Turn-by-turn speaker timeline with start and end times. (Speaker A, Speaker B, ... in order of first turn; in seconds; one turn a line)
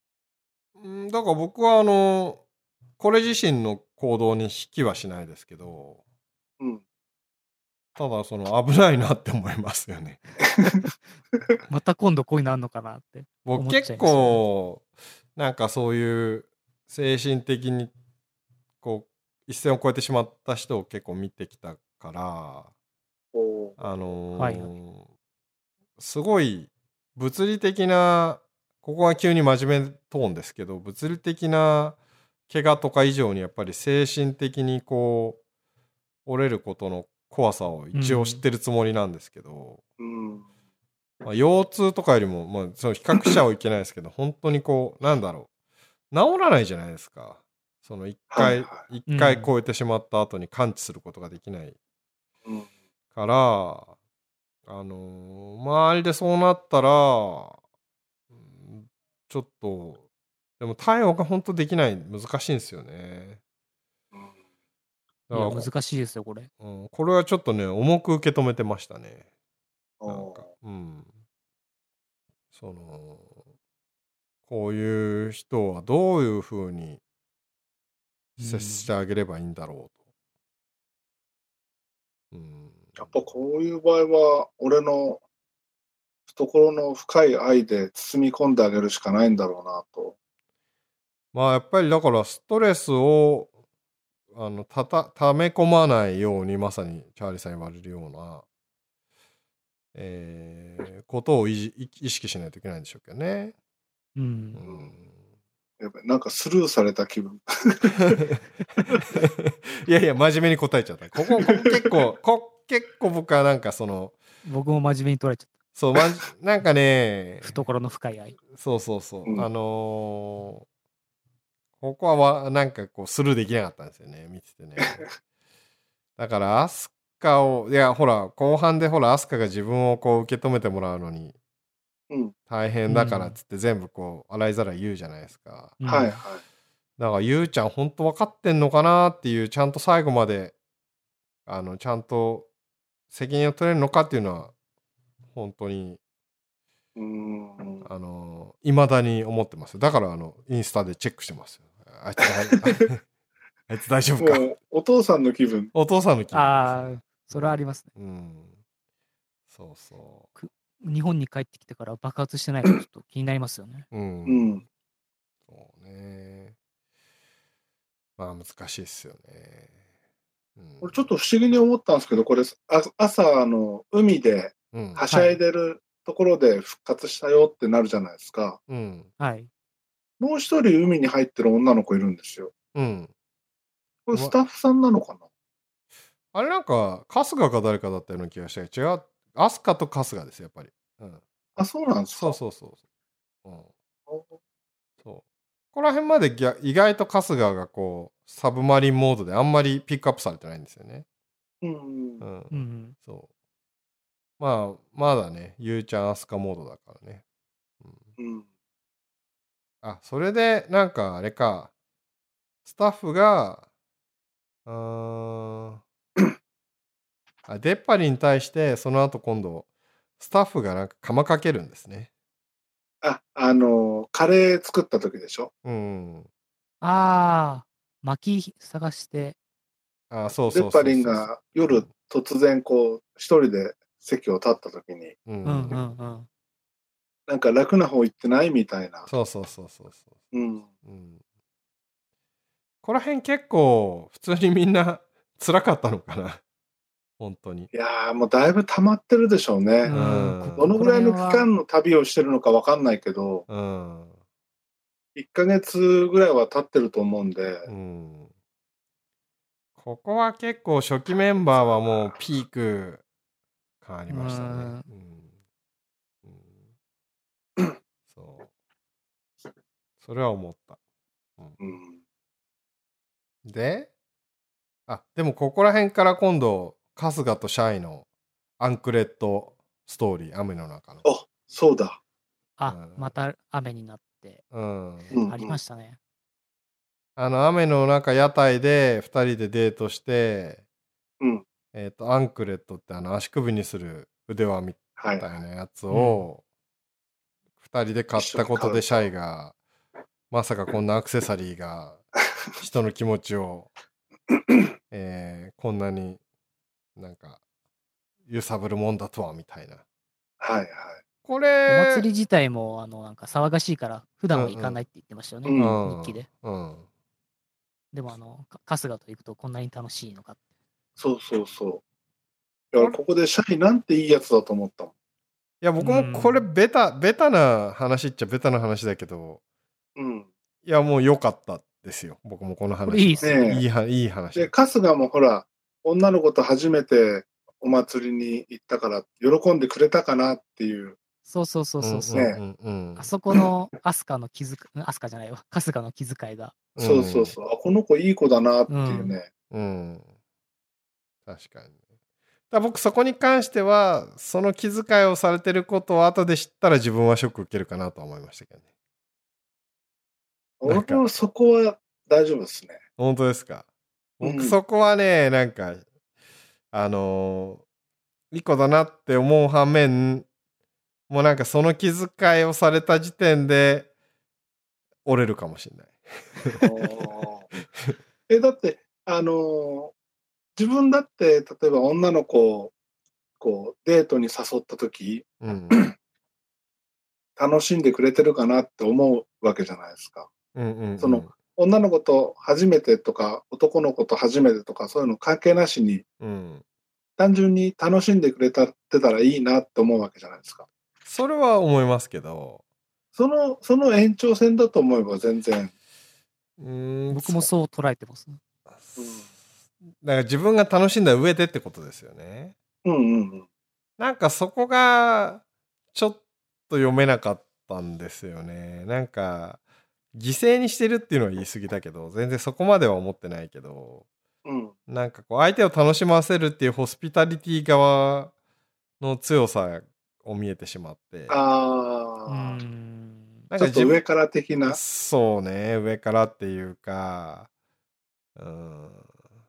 Speaker A: 0.8-2.4
Speaker A: 3.0-6.0
Speaker A: 8.0-10.2
Speaker B: 11.7-14.4
Speaker A: 13.4-17.9
Speaker A: 18.8-22.7
Speaker C: 23.3-24.0
Speaker A: 23.8-25.1
Speaker B: 24.4-24.7
Speaker A: 26.0-32.0
Speaker A: 32.5-35.4
Speaker A: 36.2-39.8
Speaker B: 37.9-38.4
Speaker C: 40.0-40.5
Speaker A: 41.2-45.5
Speaker A: 46.1-51.8
Speaker C: 48.3-48.8
Speaker B: 49.1-49.5
Speaker A: 53.1-53.9
Speaker A: 54.6-57.6
Speaker A: 58.3-60.0
Speaker A: 60.6-63.4
Speaker A: 65.3-65.7
Speaker B: 65.3-66.5
Speaker A: 66.6-69.2
Speaker C: 70.0-70.5
Speaker A: 70.1-71.1
Speaker A: 72.5-73.4
Speaker A: 74.5-77.0
Speaker B: 78.4-78.9
Speaker A: 78.4-80.0
Speaker A: 82.3-83.2
Speaker C: 83.0-85.2
Speaker C: 86.3-90.2
Speaker A: 91.3-93.5
Speaker A: 94.3-98.4
Speaker A: 99.9-103.5
Speaker B: 104.2-104.6
Speaker A: 104.5-105.1
Speaker C: 104.7-104.9
Speaker C: 105.8-108.2
Speaker A: 108.9-114.2
Speaker C: 111.3-111.7
Speaker B: 114.4-115.5
Speaker A: 115.7-117.6
Speaker B: 117.4-118.4
Speaker A: 118.5-120.6
Speaker A: 121.8-125.0
Speaker A: 126.2-131.3
Speaker C: 132.1-132.3
Speaker A: 132.5-135.8
Speaker B: 132.9-133.3
Speaker B: 135.8-136.1
Speaker C: 135.8-136.4
Speaker A: 137.0-140.5
Speaker A: 141.5-142.5
Speaker A: 143.1-144.5
Speaker A: 145.3-146.0
Speaker C: 146.9-147.9
Speaker A: 147.8-153.0
Speaker A: 153.7-154.5
Speaker C: 154.2-155.7
Speaker A: 155.7-158.6
Speaker B: 156.3-157.9
Speaker A: 159.5-160.3
Speaker B: 160.3-163.9
Speaker A: 163.9-164.6
Speaker C: 164.2-164.6
Speaker A: 165.5-166.5
Speaker A: 168.2-169.7
Speaker A: 170.6-171.0
Speaker C: 170.8-178.6
Speaker A: 174.7-175.0
Speaker B: 175.1-175.4
Speaker A: 178.7-179.1
Speaker B: 179.2-179.5
Speaker C: 180.2-182.5
Speaker A: 182.7-183.1
Speaker C: 184.1-185.2
Speaker A: 186.3-191.2
Speaker C: 191.6-192.4
Speaker A: 192.1-192.8
Speaker A: 193.4-193.7
Speaker C: 194.1-194.4
Speaker A: 195.7-201.0
Speaker C: 201.6-202.2
Speaker A: 202.2-203.3
Speaker B: 202.5-202.9
Speaker A: 204.4-207.2
Speaker C: 208.2-208.4
Speaker A: 209.8-211.7
Speaker A: 212.6-213.6
Speaker A: 214.7-215.8
Speaker A: 217.5-219.7
Speaker A: 220.2-222.1
Speaker C: 223.0-225.5
Speaker A: 225.6-226.3
Speaker B: 226.8-229.4
Speaker A: 230.1-231.8
Speaker C: 230.5-235.1
Speaker A: 235.2-235.8
Speaker B: 235.4-236.3
Speaker C: 237.3-239.1
Speaker A: 239.1-240.2
Speaker C: 240.3-240.7
Speaker A: 240.8-241.2
Speaker A: 242.8-246.4
Speaker A: 247.2-247.7
Speaker C: 247.7-249.9
Speaker B: 249.8-251.5
Speaker A: 249.9-250.7
Speaker C: 250.6-253.5
Speaker A: 253.5-254.1
Speaker C: 255.2-257.7
Speaker A: 257.7-258.3
Speaker A: 259.8-263.0
Speaker A: 263.8-265.3
Speaker B: 264.1-264.9
Speaker A: 266.2-266.5
Speaker A: 268.1-268.5
Speaker A: 270.0-270.8
Speaker C: 271.6-272.0
Speaker A: 273.4-273.9
Speaker A: 274.9-278.1
Speaker A: 278.6-281.0
Speaker C: 281.0-282.0
Speaker B: 282.6-284.4
Speaker A: 282.7-283.1
Speaker A: 284.5-285.1
Speaker C: 285.1-285.6
Speaker B: 285.2-286.0
Speaker A: 287.2-290.6
Speaker C: 291.2-291.4
Speaker A: 291.7-296.4
Speaker C: 295.0-295.3
Speaker B: 295.9-296.2
Speaker A: 297.6-299.5
Speaker C: 298.1-299.1
Speaker A: 300.3-302.0
Speaker A: 302.6-303.7
Speaker C: 304.3-304.6
Speaker A: 304.9-306.2
Speaker A: 306.9-307.4
Speaker A: 308.3-309.8
Speaker C: 310.4-311.0
Speaker A: 311.2-312.0
Speaker B: 311.7-316.3
Speaker A: 314.3-314.8
Speaker C: 315.4-315.8
Speaker A: 315.5-316.9
Speaker B: 317.9-320.4
Speaker C: 321.0-321.8
Speaker C: 322.7-324.9
Speaker A: 325.6-329.4
Speaker B: 325.8-326.4
Speaker C: 330.0-330.3
Speaker A: 330.6-334.5
Speaker B: 332.9-333.4
Speaker C: 333.2-333.6
Speaker C: 334.3-341.0
Speaker B: 341.2-342.2
Speaker A: 341.8-343.1
Speaker C: 342.1-342.4
Speaker B: 343.0-346.6
Speaker A: 346.8-347.3
Speaker C: 346.8-349.3
Speaker B: 348.7-349.1
Speaker A: 349.5-350.1
Speaker A: 351.2-351.7
Speaker A: 352.5-358.6
Speaker C: 360.6-362.8
Speaker A: 360.6-361.0
Speaker A: 363.0-363.6
Speaker A: 364.2-365.8
Speaker C: 364.2-364.6
Speaker A: 366.7-367.6
Speaker A: 368.3-370.3
Speaker A: 371.1-373.9
Speaker A: 375.0-376.9
Speaker C: 376.6-377.5
Speaker C: 378.3-379.9
Speaker C: 380.6-382.7
Speaker C: 383.4-385.9
Speaker A: 385.4-385.8
Speaker C: 387.4-390.3
Speaker A: 390.5-391.3
Speaker C: 391.0-396.0
Speaker A: 396.2-396.6
Speaker C: 397.2-400.6
Speaker A: 401.1-402.6
Speaker C: 403.1-405.7
Speaker A: 406.6-407.5
Speaker B: 407.1-408.4
Speaker C: 409.0-409.2
Speaker A: 410.0-412.5
Speaker C: 412.8-413.4
Speaker A: 414.0-419.6
Speaker A: 420.1-424.0
Speaker C: 424.4-424.7
Speaker A: 424.9-428.3
Speaker A: 429.0-431.4
Speaker C: 431.3-432.6
Speaker B: 432.3-433.5
Speaker A: 433.5-434.0
Speaker C: 433.6-434.8
Speaker A: 434.7-437.5
Speaker A: 438.4-439.1